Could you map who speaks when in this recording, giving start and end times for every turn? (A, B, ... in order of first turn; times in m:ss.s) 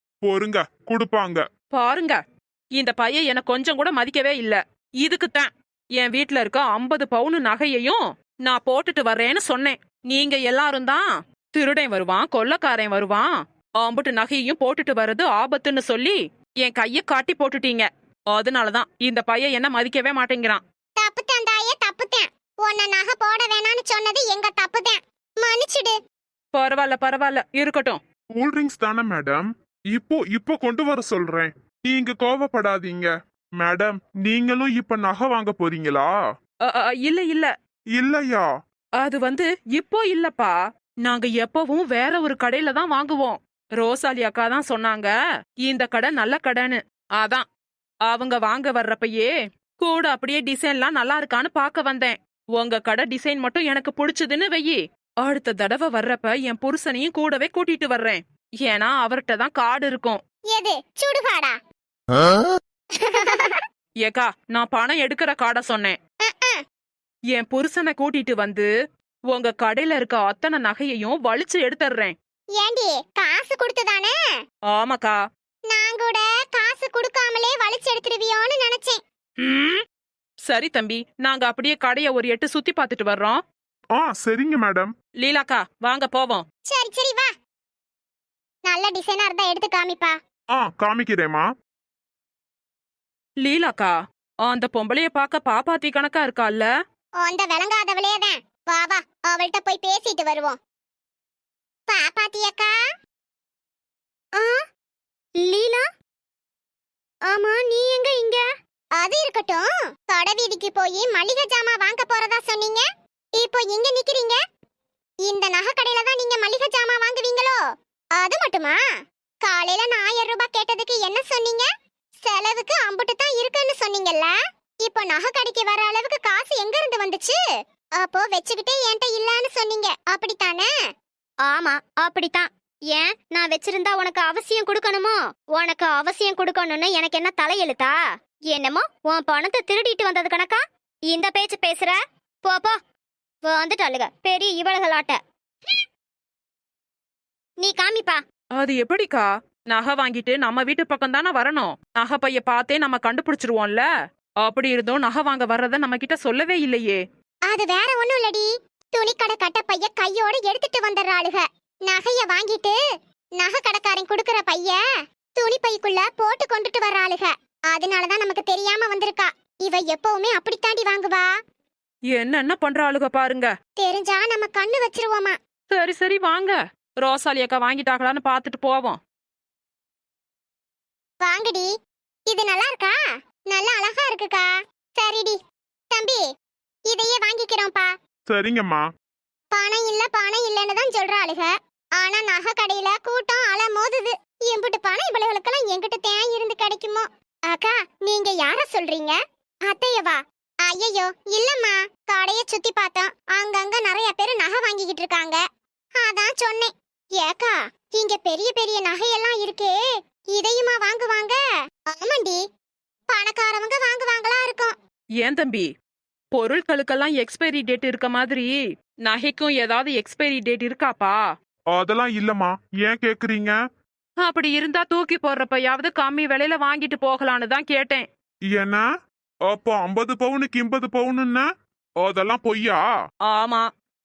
0:00.2-0:01.4 A
0:01.7-0:02.2 B
0:02.8-0:05.5 B
0:06.0-0:13.3 B
0:13.8-0:20.6 B
0:21.0-0:25.9 C
0:26.5-0:28.0 B
0:28.4-0:36.1 A
0:36.7-0:37.5 B
0:38.0-0:38.5 A
0:39.0-0:45.1 B
0:45.7-0:47.5 B
0:48.1-1:00.2 B
1:00.5-1:01.6 C
1:03.0-1:03.6 C
1:04.0-1:06.0 B
1:06.3-1:06.6 C
1:07.3-1:08.7 B
1:09.3-1:12.1 B
1:12.6-1:14.2 C
1:14.7-1:15.2 B
1:15.7-1:19.0 C
1:19.4-1:19.8 B
1:20.5-1:23.4 B
1:23.9-1:24.9 A
1:25.2-1:26.4 B
1:26.7-1:27.3 C
1:28.7-1:30.2 C
1:30.5-1:31.5 A
1:33.4-1:33.9 B
1:34.5-1:36.7 B
1:37.2-1:40.6 C
1:41.9-1:42.7 C
1:45.4-1:45.8 C
1:47.3-1:48.4 C
1:49.0-1:52.8 C
1:53.4-1:54.4 C
1:55.2-1:57.6 C
1:58.2-1:58.8 C
1:59.4-2:01.7 C
2:02.2-2:07.4 C
2:08.0-2:10.7 C
2:11.4-2:18.0 D
2:18.5-2:22.8 D
2:23.4-2:25.2 D
2:27.6-2:28.2 D
2:28.6-2:33.9 B
2:34.4-2:37.0 B
2:37.5-2:42.8 C
2:43.4-2:44.8 C
2:45.4-2:51.3 C
2:52.1-2:53.5 B
2:53.8-2:55.4 C
2:55.7-2:59.0 B
3:01.2-3:01.7 C
3:02.3-3:03.0 C
3:03.5-3:05.4 C
3:05.9-3:06.2 C
3:06.9-3:07.9 C
3:08.3-3:08.8 A
3:09.5-3:25.4 C
3:26.0-3:29.8 C
3:30.3-3:31.4 C
3:31.9-3:32.4 C
3:33.1-3:34.7 C
3:35.2-3:35.7 B
3:36.3-3:38.5 B
3:39.0-3:41.2 B
3:41.8-3:43.6 A
3:44.2-3:48.0 B
3:48.5-3:48.8 A
3:49.5-3:51.5 A
3:52.0-3:52.8 A
3:53.3-3:53.6 B